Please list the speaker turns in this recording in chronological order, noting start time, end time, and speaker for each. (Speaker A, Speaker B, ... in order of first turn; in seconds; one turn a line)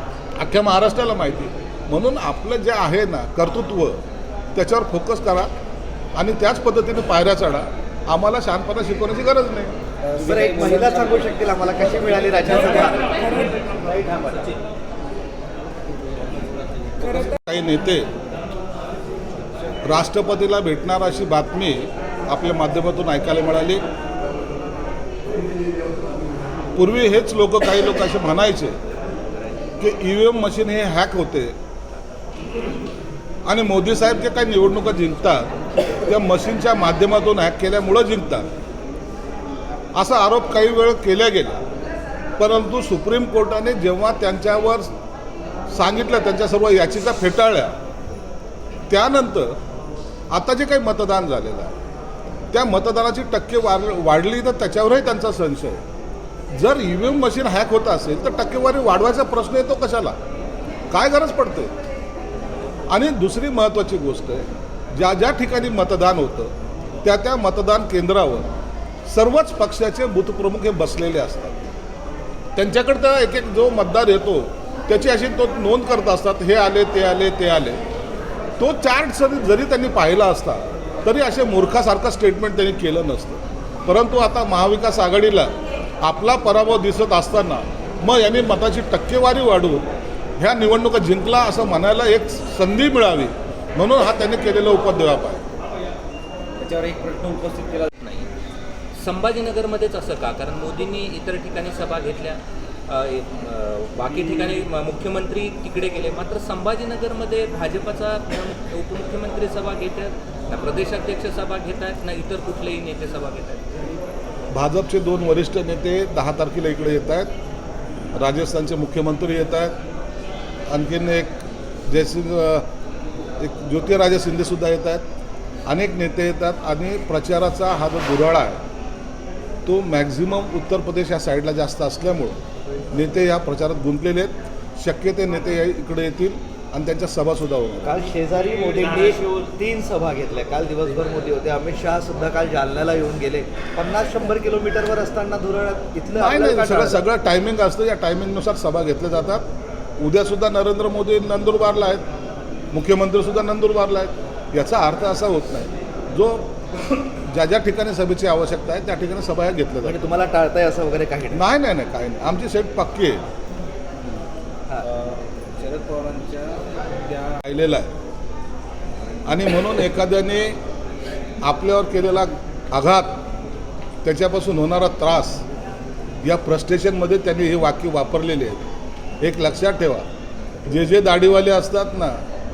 Speaker A: 0.4-4.0
Speaker A: 4.5-5.5
Speaker A: 6.2-9.8
Speaker B: 10.0-13.0
Speaker C: 10.2-13.2
Speaker B: 13.9-14.5
Speaker A: 17.0-18.1
Speaker A: 19.8-23.8
Speaker A: 26.8-28.8
Speaker A: 29.8-31.6
Speaker A: 33.5-35.5
Speaker A: 36.0-38.5
Speaker A: 39.9-41.6
Speaker A: 42.4-44.9
Speaker A: 45.7-47.8
Speaker A: 48.9-49.6
Speaker A: 50.3-51.7
Speaker A: 52.5-55.8
Speaker A: 56.5-60.2
Speaker A: 60.9-61.7
Speaker A: 62.9-68.5
Speaker A: 69.1-71.6
Speaker A: 72.6-77.8
Speaker A: 78.6-89.9
Speaker A: 90.4-95.4
Speaker B: 96.6-97.9
Speaker D: 98.0-98.3
Speaker D: 99.0-113.7
Speaker A: 114.5-117.3
Speaker A: 118.2-119.8
Speaker A: 120.7-121.3
Speaker A: 121.9-122.7
Speaker A: 123.4-125.0
Speaker A: 125.7-128.6
Speaker A: 129.7-132.4
Speaker A: 132.9-138.0
Speaker C: 137.8-147.0
Speaker A: 146.2-149.5
Speaker A: 150.0-152.0
Speaker A: 152.7-160.0
Speaker C: 159.8-161.4
Speaker A: 161.3-163.2
Speaker B: 164.8-167.4
Speaker A: 167.4-167.9
Speaker A: 169.3-170.6
Speaker A: 171.4-173.2
Speaker A: 174.0-175.4
Speaker A: 176.2-178.7
Speaker A: 179.2-180.1
Speaker A: 180.7-182.2